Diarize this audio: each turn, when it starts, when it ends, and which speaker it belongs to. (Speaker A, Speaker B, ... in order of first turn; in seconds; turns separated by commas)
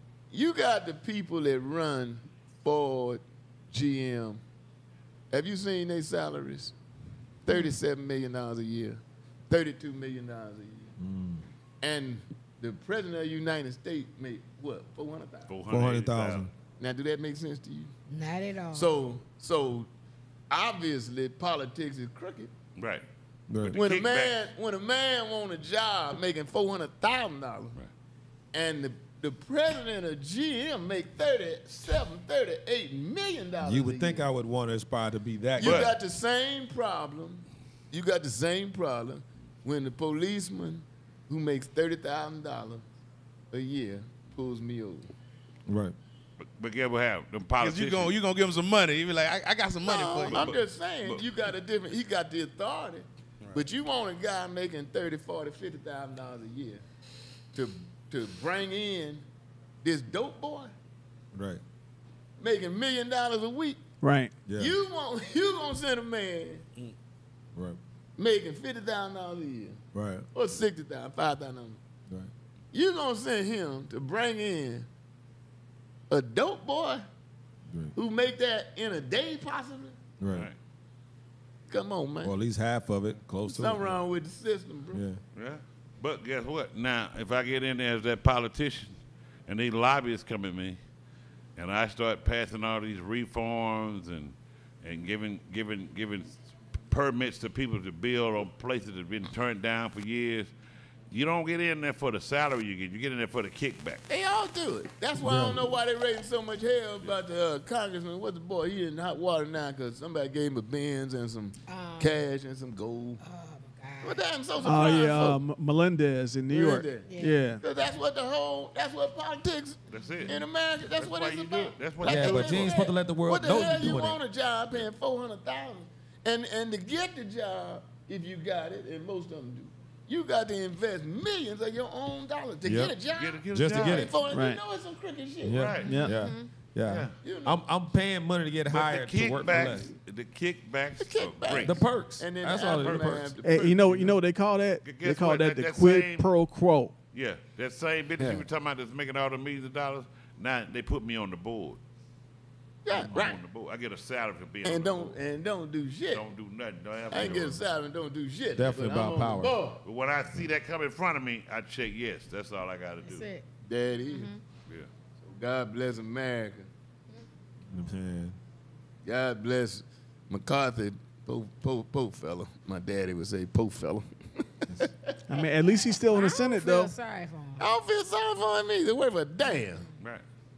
Speaker A: 0.3-4.4, Speaker A: 5.3-6.7, Speaker A: 7.5-10.9, Speaker B: 11.0-11.4, Speaker A: 11.8-15.5, Speaker C: 15.5-16.5, Speaker B: 15.7-16.5, Speaker A: 16.8-17.9, Speaker D: 18.1-19.0, Speaker A: 18.7-19.9, Speaker A: 20.5-22.5, Speaker C: 22.8-23.1, Speaker B: 23.5-23.8, Speaker C: 23.6-24.4, Speaker A: 23.7-27.8, Speaker A: 28.5-34.3, Speaker B: 33.6-35.9, Speaker A: 35.6-42.9, Speaker C: 35.6-35.9, Speaker A: 43.5-45.1, Speaker B: 45.7-46.0, Speaker C: 46.4-48.2, Speaker E: 47.6-50.4, Speaker A: 49.8-56.8, Speaker C: 50.2-51.2, Speaker A: 57.5-59.2, Speaker A: 59.8-60.7, Speaker B: 61.3-61.6, Speaker A: 62.4-63.8, Speaker F: 64.0-64.3, Speaker B: 64.5-64.7, Speaker A: 64.6-66.7, Speaker A: 68.2-69.8, Speaker B: 69.9-70.3, Speaker A: 70.3-71.8, Speaker A: 72.7-74.9, Speaker A: 76.1-77.0, Speaker A: 78.0-80.0, Speaker B: 80.2-80.5, Speaker C: 80.3-80.6, Speaker A: 81.7-82.3, Speaker B: 82.2-84.0, Speaker A: 83.5-85.0, Speaker B: 84.9-85.2, Speaker C: 85.3-90.8, Speaker C: 91.6-100.5, Speaker C: 101.1-104.0, Speaker A: 104.1-113.2, Speaker B: 105.2-105.6, Speaker D: 111.7-112.2, Speaker D: 113.2-115.2, Speaker A: 114.0-115.4, Speaker F: 114.6-117.6, Speaker A: 116.5-135.7, Speaker D: 117.0-117.4, Speaker C: 119.9-122.9, Speaker B: 122.0-124.2, Speaker B: 132.7-132.9, Speaker C: 133.1-134.2, Speaker B: 133.5-134.1, Speaker F: 134.3-134.6, Speaker B: 135.4-139.9, Speaker C: 135.5-135.9, Speaker F: 135.8-136.2, Speaker D: 135.9-136.5, Speaker C: 136.8-137.2, Speaker A: 137.2-137.7, Speaker C: 138.7-141.8, Speaker A: 141.0-144.2, Speaker B: 141.6-143.4, Speaker F: 143.4-146.9, Speaker C: 144.8-146.3, Speaker C: 147.1-151.8, Speaker A: 148.2-148.5, Speaker A: 152.8-153.4, Speaker C: 152.9-155.2, Speaker B: 152.9-153.3, Speaker A: 154.6-156.3, Speaker C: 156.1-157.6, Speaker A: 157.1-159.8, Speaker B: 157.1-157.6, Speaker B: 158.6-159.5, Speaker C: 159.8-163.3, Speaker D: 163.0-163.5, Speaker A: 163.7-164.3, Speaker D: 164.0-164.4, Speaker A: 165.2-166.7, Speaker B: 167.7-168.4, Speaker A: 169.0-175.2, Speaker F: 175.3-176.9, Speaker D: 175.8-177.6, Speaker A: 177.6-179.9, Speaker C: 180.0-180.2